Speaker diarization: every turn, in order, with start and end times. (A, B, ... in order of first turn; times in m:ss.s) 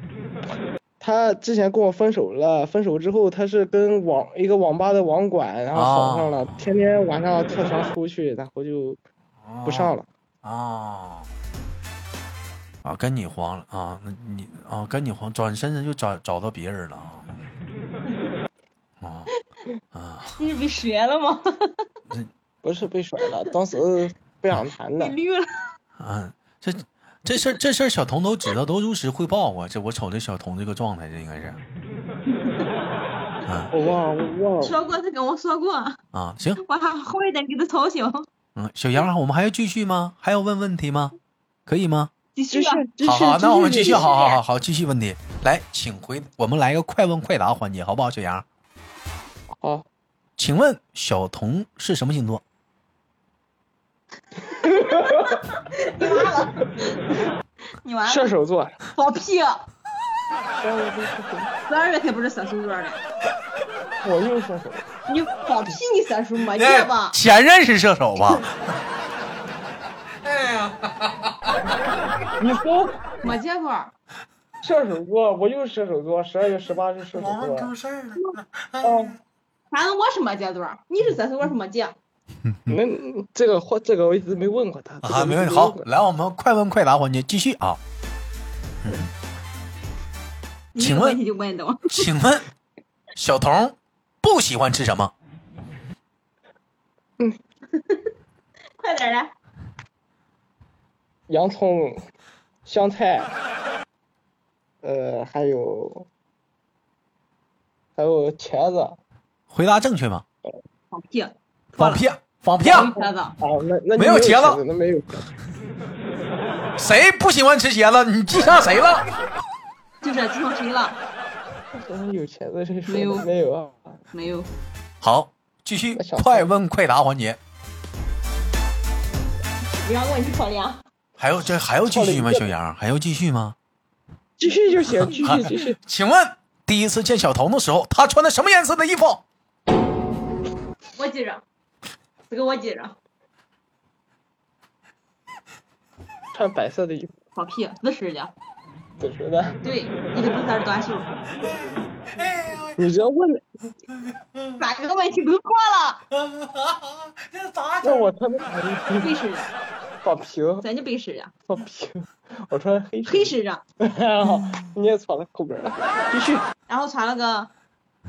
0:01.0-0:09.0 A
0:05.7-0:06.7 B
0:09.4-0:11.3 B
0:09.6-0:10.1 A
0:12.8-0:17.5 B
0:19.0-0:19.3 B
0:19.9-0:20.4 B
0:20.4-0:21.8 C
0:22.6-0:25.1 A
0:25.0-0:25.5 C
0:26.0-0:31.6 B
0:32.3-0:32.7 C
0:33.4-0:33.7 B
0:33.7-0:34.8 A
0:34.6-0:36.0 C
0:36.1-0:36.6 B
0:36.6-0:38.3 C
0:38.6-0:41.2 B
0:41.7-0:42.1 B
0:42.4-0:44.4 C
0:42.5-0:44.0 A
0:43.0-0:48.4 B
0:49.6-0:49.9 A
0:50.4-0:52.4 B
0:54.4-0:57.0 C
0:54.6-0:55.3 A
0:56.0-0:56.2 A
0:57.7-0:58.3 C
0:58.1-0:58.8 A
0:58.9-0:59.6 C
1:00.6-1:01.5 A
1:01.7-1:03.0 C
1:04.0-1:04.9 A
1:05.1-1:07.2 C
1:06.6-1:08.7 B
1:10.2-1:11.6 B
1:12.4-1:13.0 A
1:13.2-1:13.9 C
1:14.6-1:17.7 A
1:17.2-1:19.2 B
1:18.8-1:19.2 A
1:19.7-1:22.0 C
1:22.4-1:22.8 B
1:22.7-1:25.9 A
1:25.0-1:27.8 B
1:28.8-1:29.1 B
1:30.7-1:32.1 C
1:30.8-1:31.2 B
1:31.9-1:32.5 B
1:33.2-1:35.1 B
1:37.7-1:38.1 C
1:38.8-1:39.3 C
1:41.3-1:42.0 A
1:42.7-1:43.3 A
1:44.8-1:46.1 A
1:48.0-1:49.0 A
1:49.5-1:50.2 B
1:50.9-1:52.0 C
1:51.8-1:52.9 B
1:52.6-1:55.3 A
1:52.6-1:53.4 C
1:54.0-1:54.6 B
1:56.8-1:59.1 B
2:00.0-2:01.0 C
2:01.8-2:04.0 A
2:02.9-2:03.3 C
2:04.1-2:04.5 C
2:05.0-2:07.4 B
2:06.0-2:06.5 A
2:09.8-2:10.8 C
2:11.2-2:13.6 B
2:11.9-2:12.5 A
2:14.4-2:15.8 A
2:15.0-2:19.2 B
2:21.0-2:21.4 C
2:22.3-2:23.0 C
2:26.3-2:27.1 A
2:27.4-2:28.3 C
2:29.0-2:29.6 A
2:29.6-2:31.1 C
2:31.4-2:32.9 B
2:32.8-2:33.4 A
2:33.9-2:34.6 B
2:34.6-2:36.0 C
2:36.1-2:38.2 B
2:37.8-2:39.2 A
2:39.0-2:39.5 C
2:40.0-2:40.6 A
2:40.6-2:41.3 C
2:41.5-2:46.5 A
2:43.1-2:43.6 C
2:46.7-2:47.5 C